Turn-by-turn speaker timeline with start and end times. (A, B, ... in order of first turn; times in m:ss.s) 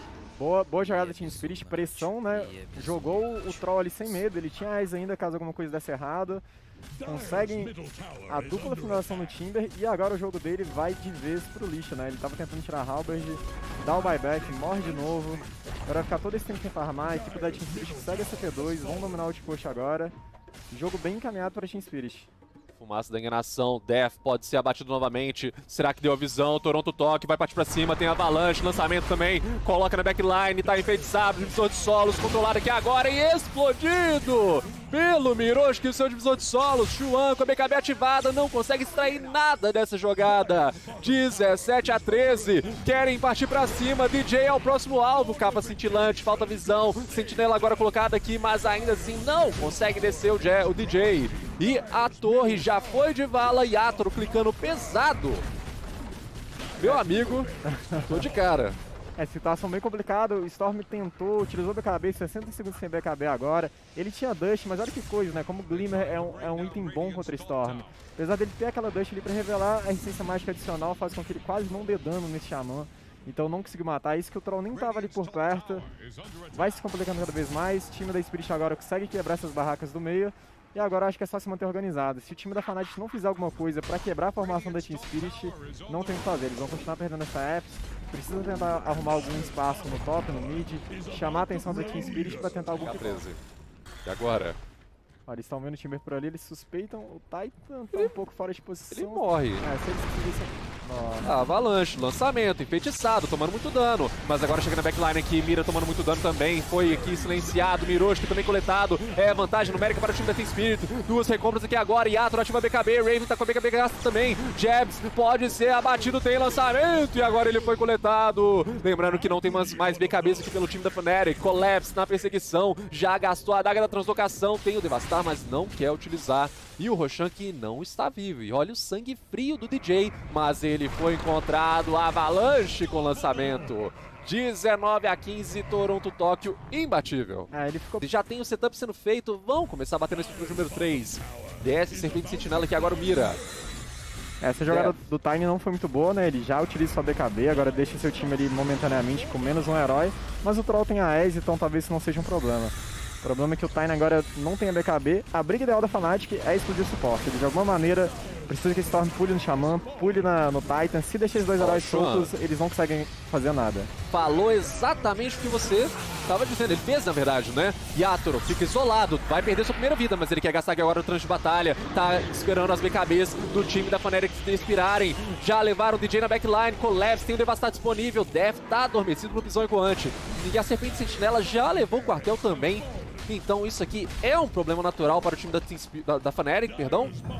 0:00.4-0:06.4 A
0:07.0-0:20.1 A
0:20.7-0:22.3 A
0:22.8-0:55.4 B
0:56.8-0:58.8 B
0:56.8-0:58.3 A
0:59.2-1:15.9 A
1:16.5-1:33.2 A
1:32.8-1:33.4 B
1:34.0-1:34.6 B
1:35.3-1:41.3 A
1:38.9-1:39.7 B
1:41.2-2:23.4 B
2:17.5-2:18.1 A
2:24.4-2:43.9 A
2:24.7-2:24.9 B
2:41.6-2:42.3 B
2:44.1-3:07.2 B